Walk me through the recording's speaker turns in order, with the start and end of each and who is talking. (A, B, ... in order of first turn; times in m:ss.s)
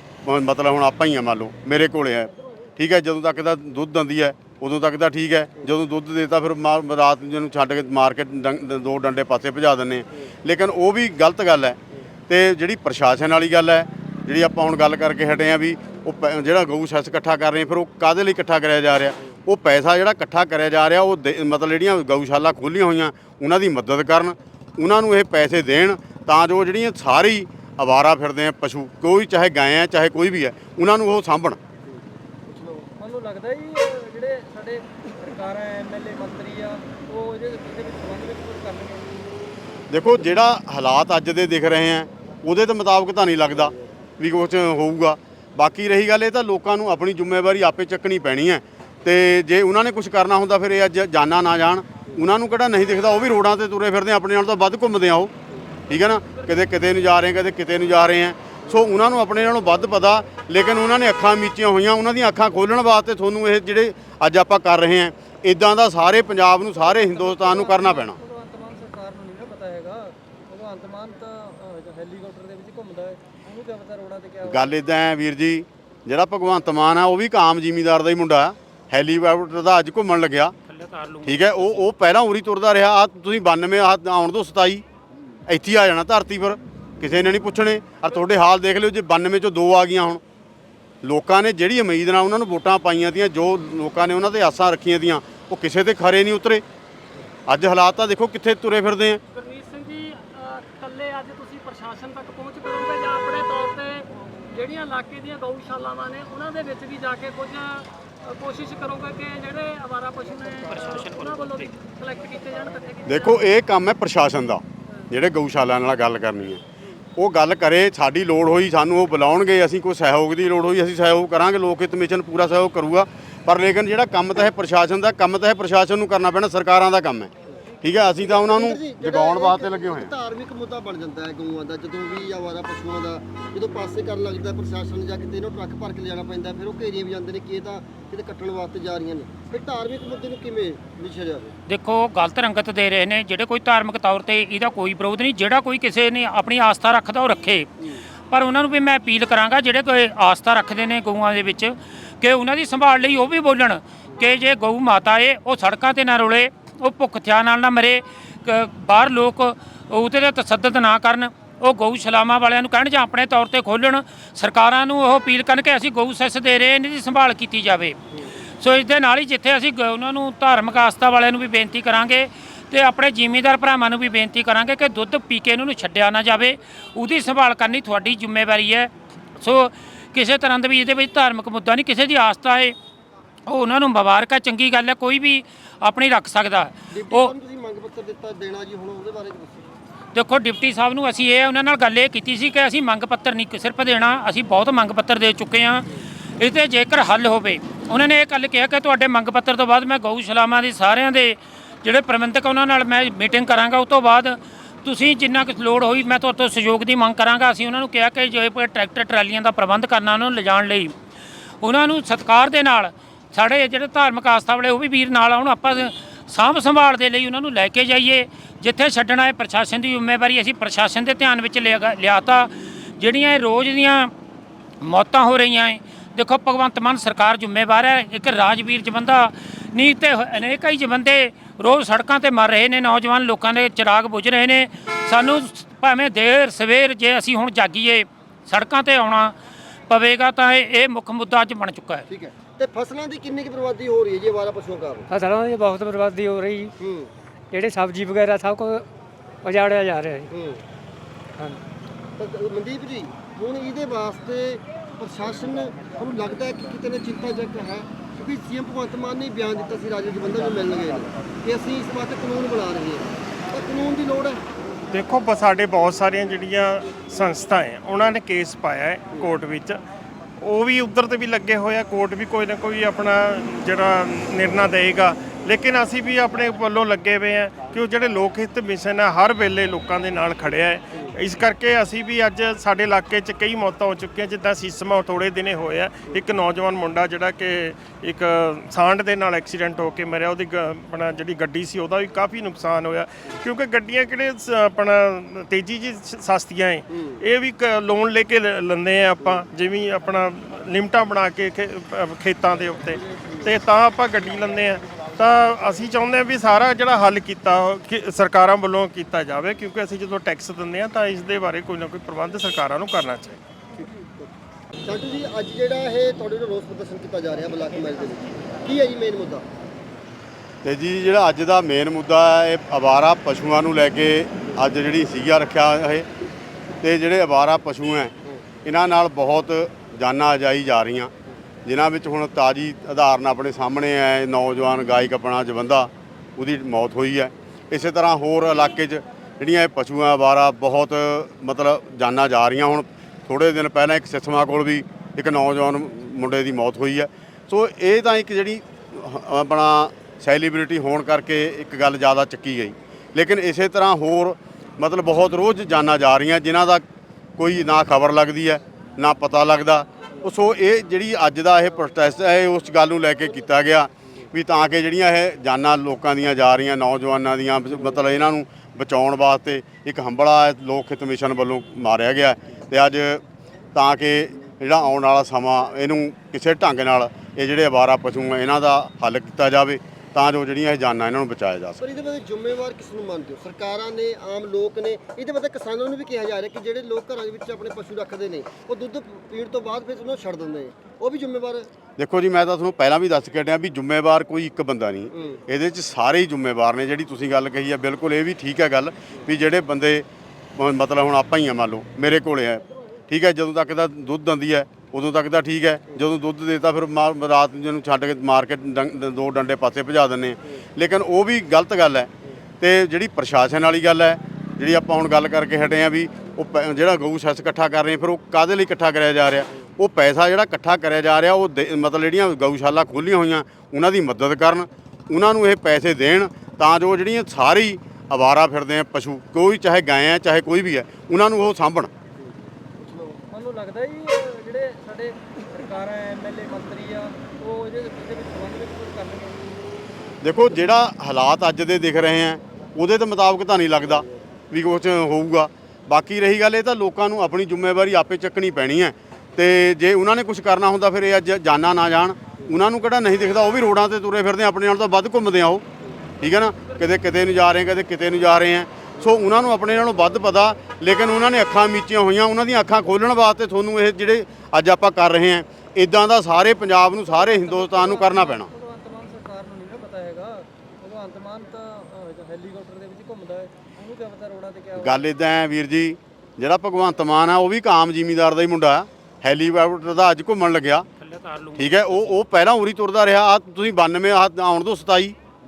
0:00.2-0:31.6 A
0:31.8-0:32.9 B
0:33.0-0:39.3 C
0:39.9-0:55.3 A
0:55.5-0:55.8 B
0:55.9-1:08.2 A
1:06.7-1:14.7 C
1:14.5-1:20.5 A
1:20.6-1:21.9 D
1:21.2-1:24.8 A
1:25.5-1:30.2 A
1:31.0-1:36.6 A
1:37.5-1:39.2 A
1:39.3-1:53.3 E
1:50.7-1:51.7 D
1:53.0-1:56.6 A
1:57.2-2:07.3 A
2:07.8-2:10.1 A
2:08.1-2:21.5 B
2:21.7-2:27.7 D
2:28.3-2:48.0 D
2:48.6-3:02.7 D
3:03.5-3:07.3 D
3:06.9-3:09.7 B
3:10.1-3:30.9 D
3:31.6-3:44.1 D
3:44.8-3:59.4 D
3:59.9-4:02.0 D
4:02.1-4:05.1 B
4:05.1-4:06.7 F
4:06.8-4:07.1 B
4:07.5-4:08.8 F
4:09.4-4:10.3 F
4:10.3-4:10.6 B
4:12.2-4:24.4 B
4:24.9-4:29.8 G
4:30.4-5:13.4 G
5:03.0-5:03.5 B
5:13.7-5:14.3 B
5:14.8-5:19.5 B
5:20.6-5:26.1 A
5:26.8-5:28.1 A
5:28.6-5:31.1 A
5:31.6-5:56.8 A
5:57.4-6:13.2 A
6:13.7-6:21.8 A
6:21.8-6:31.7 B
6:32.0-6:40.0 A
6:35.1-6:35.4 B
6:40.6-7:11.9 A
7:12.2-7:13.2 B
7:13.3-7:19.7 C
7:20.2-7:35.6 A
7:36.2-7:48.5 A
7:47.0-7:55.0 C
7:54.8-8:00.8 A
8:01.0-8:02.2 D
8:01.6-8:05.2 A